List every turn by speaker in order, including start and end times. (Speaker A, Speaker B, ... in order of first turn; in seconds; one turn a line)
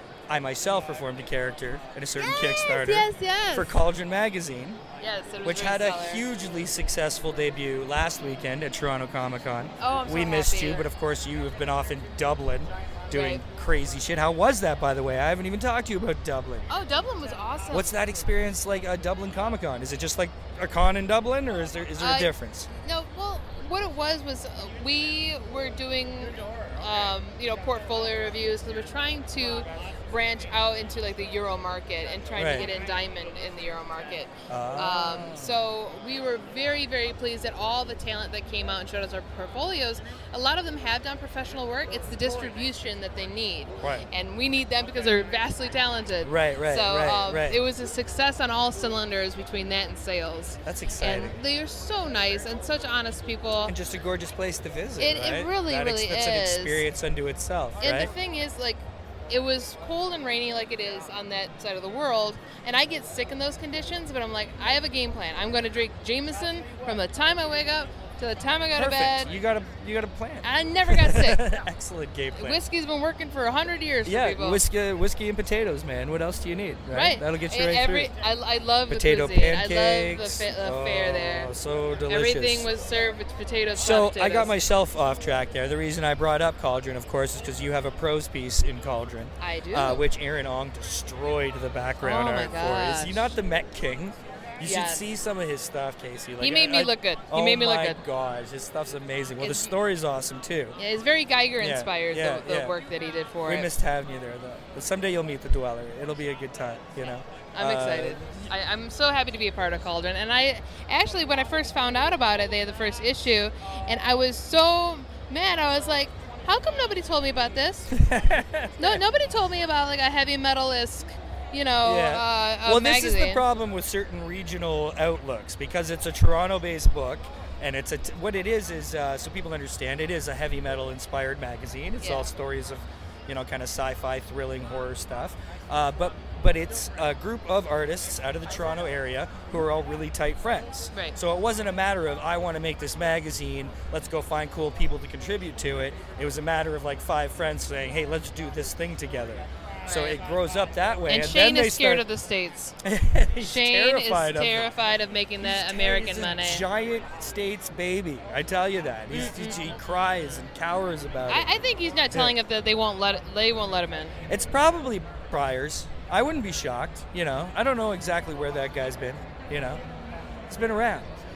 Speaker A: 0.3-4.8
Speaker B: 2.2-3.7
Speaker B: 5.0-6.2
Speaker A: 5.4-16.7
Speaker B: 9.8-10.9
Speaker B: 13.1-13.4
Speaker B: 16.7-17.9
Speaker A: 17.7-22.7
Speaker B: 22.0-53.7
Speaker A: 32.4-32.7
Speaker A: 34.5-35.6
Speaker A: 43.8-44.1
Speaker A: 46.2-47.6
Speaker A: 50.6-51.4
Speaker A: 53.6-58.1
Speaker B: 55.0-56.9
Speaker B: 57.8-69.3
Speaker A: 68.7-72.6
Speaker B: 70.4-71.5
Speaker B: 72.4-74.6
Speaker A: 74.0-78.1
Speaker B: 76.9-81.5
Speaker A: 78.9-82.7
Speaker B: 82.1-84.5
Speaker A: 83.8-100.8
Speaker B: 89.4-90.0
Speaker B: 92.0-93.3
Speaker B: 94.6-95.0
Speaker B: 96.4-98.0
Speaker B: 99.4-99.8
Speaker B: 100.8-103.7
Speaker A: 101.6-102.8
Speaker A: 103.5-108.5
Speaker B: 107.5-117.9
Speaker A: 117.9-119.0
Speaker B: 118.8-123.4
Speaker A: 121.8-152.1
Speaker B: 132.0-132.3
Speaker B: 140.9-141.2
Speaker B: 149.9-150.2
Speaker B: 151.1-152.8
Speaker A: 152.8-154.8
Speaker B: 153.4-156.7
Speaker A: 155.4-161.5
Speaker B: 159.1-159.6
Speaker B: 161.3-164.2
Speaker A: 162.1-162.3
Speaker A: 164.3-169.8
Speaker A: 170.5-171.1